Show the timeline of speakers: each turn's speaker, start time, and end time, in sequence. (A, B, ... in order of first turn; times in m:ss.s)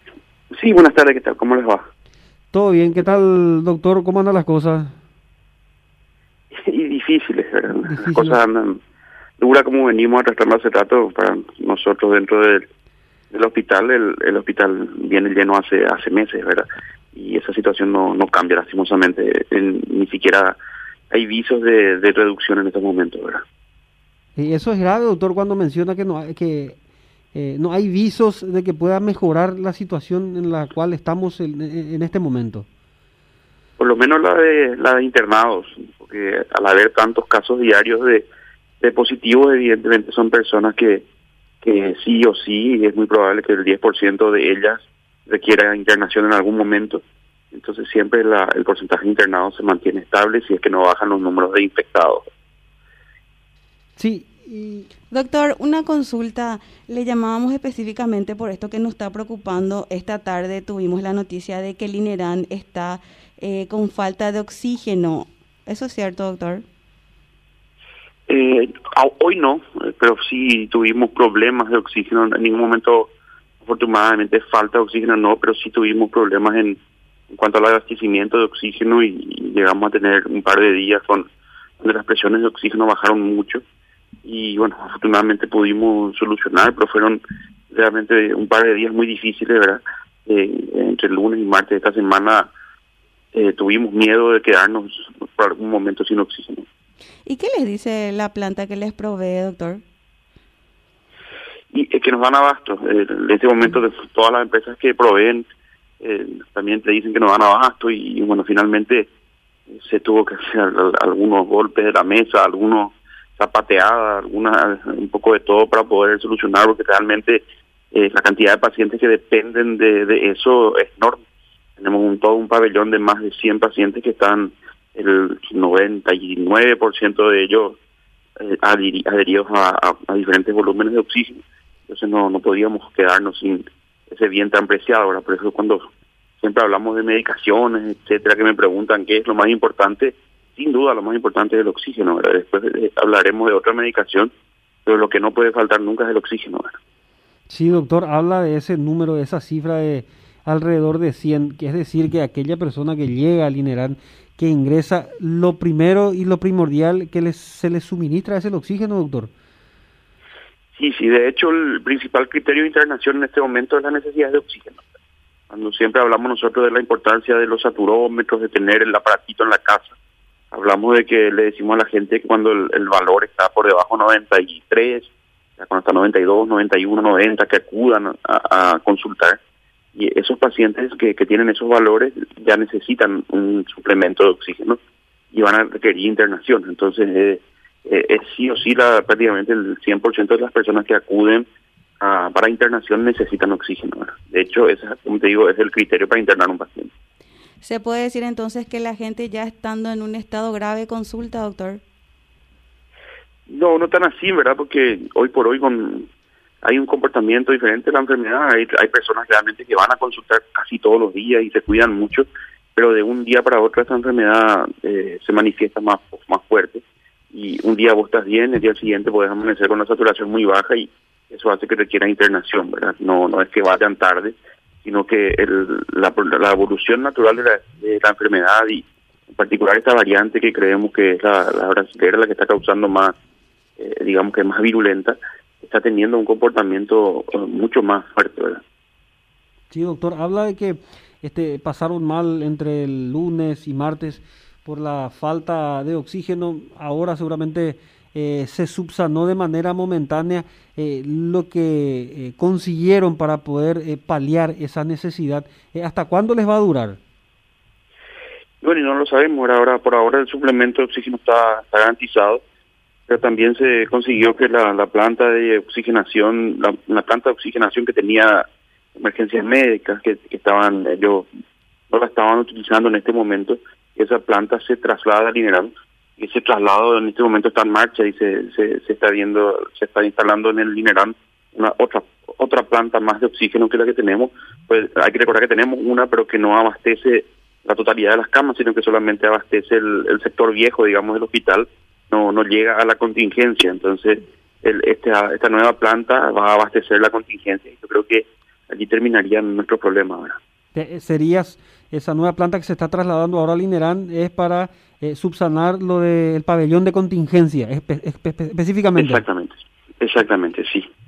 0:00.5-0:01.9 A
0:02.5-0:04.9 B
0:06.5-0:08.8 A
0:07.9-0:08.4 B
0:09.4-0:12.6 A
0:13.3-0:20.6 A
0:21.1-0:23.4 A
0:24.4-0:26.8 B
0:27.3-0:32.6 B
0:33.8-0:38.3 A
0:38.8-0:41.0 A
0:41.6-0:52.2 A
0:54.0-0:54.9 B
0:55.1-1:06.6 C
1:08.3-1:13.1 A
1:13.6-1:16.8 A
1:17.3-1:21.3 A
1:21.8-1:23.6 A
1:24.2-1:32.5 A
1:33.3-1:36.7 A
1:37.2-1:39.8 C
1:41.7-1:45.5 A
1:46.0-1:49.1 A
1:49.7-2:01.2 A
2:01.8-2:07.8 A
2:08.4-2:24.3 A
2:24.8-2:26.8 A
2:27.5-2:39.3 B
2:40.7-2:44.8 A
2:45.5-2:50.0 A
2:50.5-2:59.4 A
3:00.0-3:04.8 A
3:05.3-3:11.5 A
3:12.0-3:16.9 A
3:17.6-3:21.8 C
3:23.5-3:26.1 A
3:26.6-3:53.1 A
3:53.8-3:58.6 A
3:59.7-4:17.0 B
4:18.6-4:22.4 A
4:23.1-4:28.4 A
4:29.0-4:31.3 A
4:31.9-5:00.4 A
5:00.7-5:09.2 B
5:09.0-5:10.9 A